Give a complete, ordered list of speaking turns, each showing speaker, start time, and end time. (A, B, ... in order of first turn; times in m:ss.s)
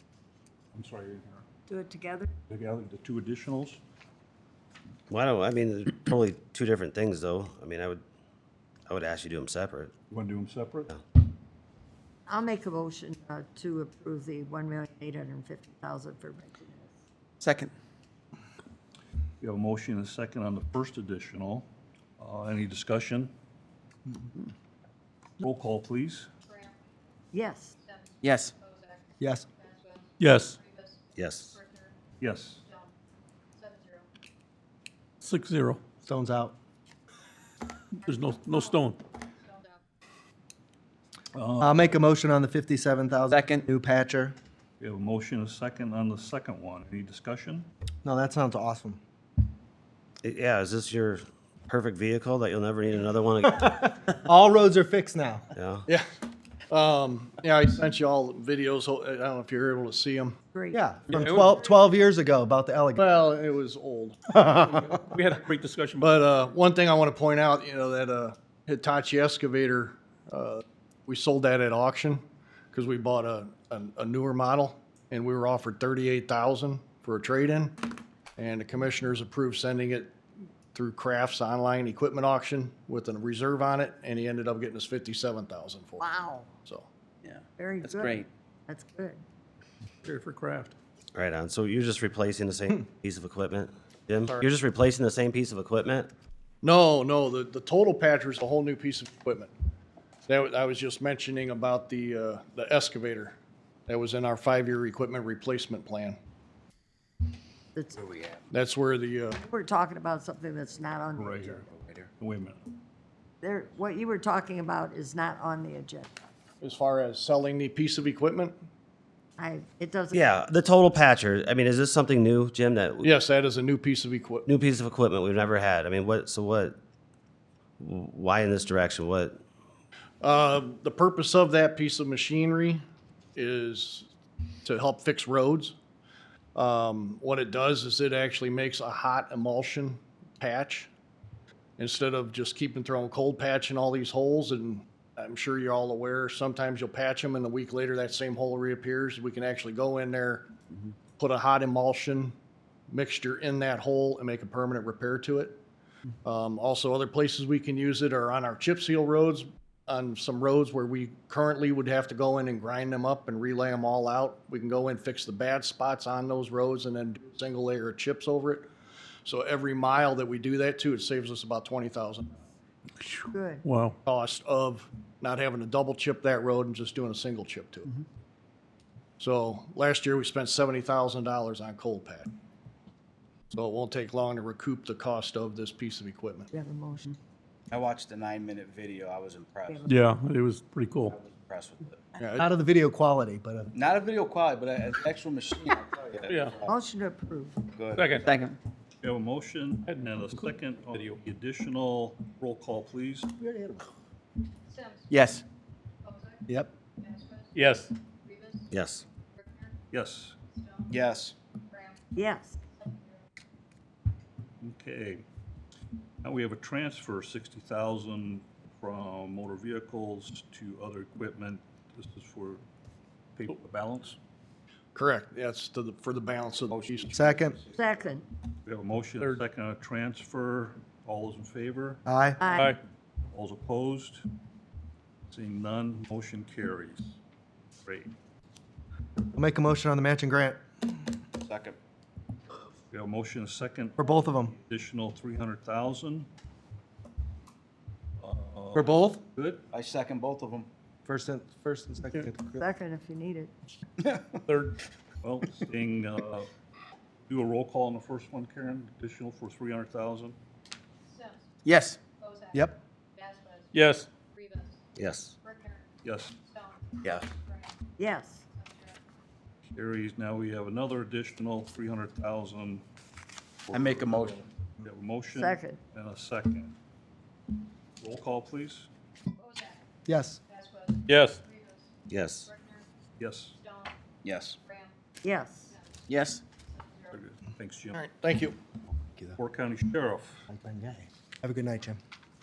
0:00.7-0:01.4 A
0:01.7-0:02.3 B
0:02.5-0:03.8 A
0:05.1-0:08.0 C
0:08.9-0:09.9 C
0:10.1-0:10.9 A
0:12.3-0:16.9 B
0:17.4-0:17.7 D
0:19.4-0:21.7 A
0:22.2-0:23.3 A
0:25.4-0:26.3 A
0:27.3-0:28.1 B
0:28.2-0:28.5 D
0:28.6-0:29.0 B
0:29.2-0:29.4 E
0:29.6-0:30.0 B
0:30.2-0:30.6 F
0:30.6-0:30.9 B
0:31.2-0:31.5 C
0:31.5-0:31.9 B
0:32.2-0:32.6 A
0:33.6-0:34.0 B
0:35.2-0:35.8 F
0:36.0-0:36.6 E
0:38.0-0:39.0 F
0:39.5-0:39.8 B
0:41.3-0:42.0 A
0:41.6-0:44.3 E
0:43.3-0:43.6 D
0:44.8-0:47.7 A
0:48.0-0:49.0 E
0:50.2-0:53.8 C
0:53.5-0:55.5 E
0:55.5-0:55.8 C
0:56.7-1:00.4 G
1:00.7-1:03.1 E
1:03.0-1:04.4 G
1:04.3-1:04.8 E
1:04.5-1:06.1 F
1:06.0-1:17.8 G
1:18.4-1:20.1 G
1:20.7-1:26.0 G
1:26.0-1:26.4 B
1:27.2-1:28.3 D
1:27.6-1:29.2 B
1:30.0-1:30.7 F
1:31.1-1:36.1 C
1:36.6-1:39.5 G
1:40.3-1:46.2 G
1:47.9-1:48.4 H
1:48.5-1:49.4 G
1:49.5-1:51.6 B
1:51.2-1:51.6 A
1:51.7-1:52.1 H
1:52.2-1:52.7 A
1:53.4-1:56.1 B
1:56.6-1:58.6 G
1:59.4-2:00.2 B
2:00.1-2:03.1 C
2:03.0-2:04.5 G
2:04.5-2:06.8 C
2:07.8-2:09.4 C
2:10.2-2:12.8 G
2:13.4-2:14.1 G
2:14.6-2:15.7 G
2:16.5-2:20.9 G
2:21.8-2:30.5 G
2:31.2-2:32.3 G
2:32.9-2:35.6 G
2:36.2-2:48.7 G
2:49.2-2:52.3 G
2:53.0-2:54.0 F
2:54.0-2:58.0 G
2:59.2-3:02.3 G
3:03.5-3:06.5 G
3:06.5-3:07.2 B
3:07.7-3:09.8 H
3:09.8-3:11.2 F
3:11.1-3:12.0 H
3:12.2-3:12.5 G
3:12.4-3:13.7 E
3:13.7-3:16.7 H
3:16.2-3:16.6 F
3:16.7-3:17.6 B
3:17.7-3:18.4 H
3:17.9-3:18.3 F
3:18.2-3:18.6 D
3:19.0-3:23.3 A
3:19.8-3:21.2 F
3:23.4-3:23.9 E
3:24.7-3:25.1 B
3:25.1-3:25.4 D
3:26.0-3:26.4 B
3:27.1-3:27.9 F
3:28.2-3:28.7 B
3:28.7-3:29.0 C
3:29.4-3:29.7 B
3:29.9-3:30.4 A
3:30.6-3:30.9 B
3:30.9-3:31.3 H
3:31.7-3:33.1 B
3:34.6-3:35.2 A
3:36.2-3:42.6 A
3:43.3-3:44.2 A
3:44.9-3:47.1 G
3:46.7-3:47.1 A
3:47.1-3:47.6 E
3:47.7-3:48.2 B
3:48.6-3:52.0 A
3:52.0-3:52.4 E
3:52.4-3:52.8 F
3:53.3-3:54.3 A
3:55.3-3:57.1 A
3:57.8-3:58.1 A
3:59.3-4:00.6 E
4:01.4-4:01.8 H
4:02.9-4:06.3 A
4:04.0-4:04.5 E
4:08.2-4:09.6 A
4:08.7-4:09.2 E
4:09.7-4:10.7 H
4:11.0-4:12.7 E
4:12.6-4:13.5 B
4:14.5-4:14.8 F
4:15.2-4:16.5 A
4:17.3-4:20.4 A
4:21.1-4:21.4 B
4:21.6-4:22.0 D
4:22.2-4:23.7 B
4:23.7-4:24.1 F
4:24.3-4:24.7 B
4:25.0-4:25.3 C
4:25.4-4:25.8 B
4:26.0-4:26.4 A
4:27.3-4:29.0 B
4:29.8-4:32.8 A
4:33.6-4:36.7 A
4:33.7-4:34.4 H
4:38.0-4:38.9 A
4:39.4-4:39.8 B
4:40.1-4:40.4 E
4:40.5-4:41.8 B
4:41.0-4:41.4 F
4:42.1-4:42.5 C
4:42.5-4:42.8 B
4:43.2-4:43.6 A
4:43.6-4:43.9 B
4:44.2-4:44.6 H
4:44.7-4:46.0 B
4:46.1-4:46.4 D
4:46.7-4:47.1 B
4:47.1-4:48.0 A
4:47.9-4:48.6 G
4:49.4-4:50.4 A
4:50.5-4:52.0 E